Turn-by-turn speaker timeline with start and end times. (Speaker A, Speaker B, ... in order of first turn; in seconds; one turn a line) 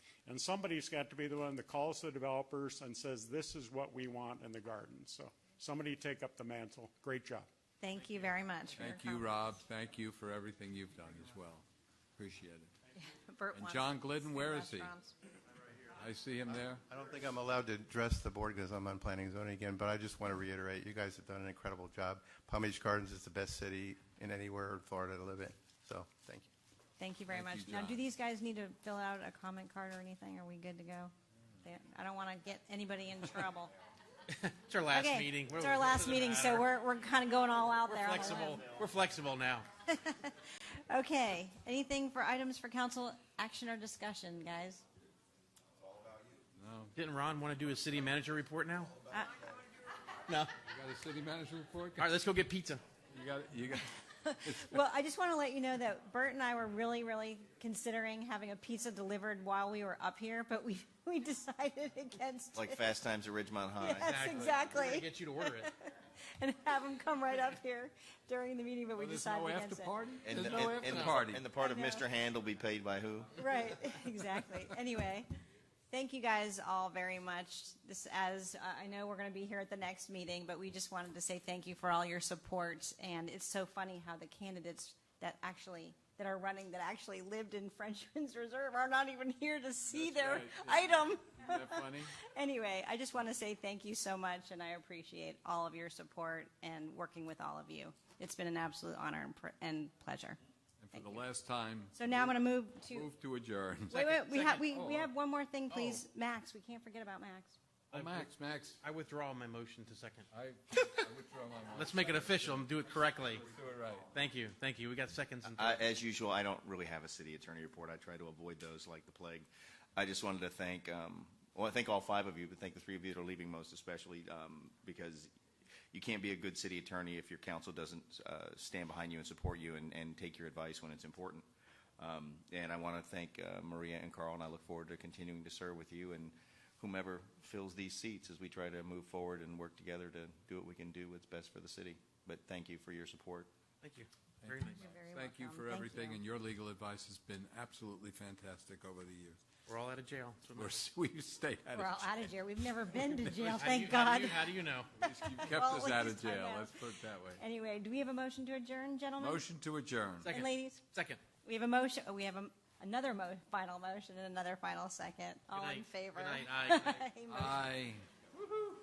Speaker A: 0.3-7.5
Speaker B: 7.8-9.3
Speaker C: 8.8-11.7
Speaker C: 12.2-12.7
Speaker B: 13.0-15.1
Speaker C: 13.5-14.9
Speaker C: 15.9-16.8
Speaker D: 16.9-26.5
Speaker B: 27.0-31.1
Speaker C: 27.3-28.0
Speaker B: 31.6-33.7
Speaker E: 34.3-36.7
Speaker B: 34.9-38.7
Speaker E: 37.9-39.7
Speaker B: 39.9-44.8
Speaker C: 46.6-46.9
Speaker E: 47.0-49.0
Speaker B: 49.1-49.4
Speaker E: 50.3-50.5
Speaker C: 50.6-52.1
Speaker E: 52.0-52.8
Speaker C: 53.1-53.9
Speaker B: 54.2-62.9
Speaker C: 54.5-54.8
Speaker F: 62.5-64.3
Speaker B: 63.8-70.0
Speaker E: 63.8-65.7
Speaker C: 69.0-71.5
Speaker F: 70.2-73.4
Speaker B: 71.6-72.1
Speaker B: 73.4-75.3
Speaker B: 75.9-100.4
Speaker C: 89.9-92.2
Speaker C: 100.8-104.0
Speaker B: 100.9-101.2
Speaker B: 102.0-103.1
Speaker E: 103.9-104.7
Speaker B: 104.0-107.6
Speaker C: 104.7-105.1
Speaker E: 105.7-106.0
Speaker E: 107.9-108.3
Speaker C: 107.9-108.8
Speaker E: 108.8-110.3
Speaker C: 110.3-114.2
Speaker E: 111.7-113.5
Speaker E: 114.1-115.8
Speaker F: 115.6-125.3
Speaker F: 125.9-131.4
Speaker F: 132.0-143.5
Speaker E: 143.8-144.8
Speaker C: 144.4-149.4
Speaker B: 144.8-146.2
Speaker E: 149.7-150.8
Speaker C: 150.6-152.1
Speaker B: 151.8-156.8
Speaker E: 152.9-154.9
Speaker C: 155.0-157.4
Speaker B: 157.4-159.5
Speaker C: 159.2-160.3
Speaker E: 160.2-161.2
Speaker B: 160.3-160.8
Speaker B: 161.4-167.7
Speaker E: 165.5-167.0
Speaker C: 167.3-168.0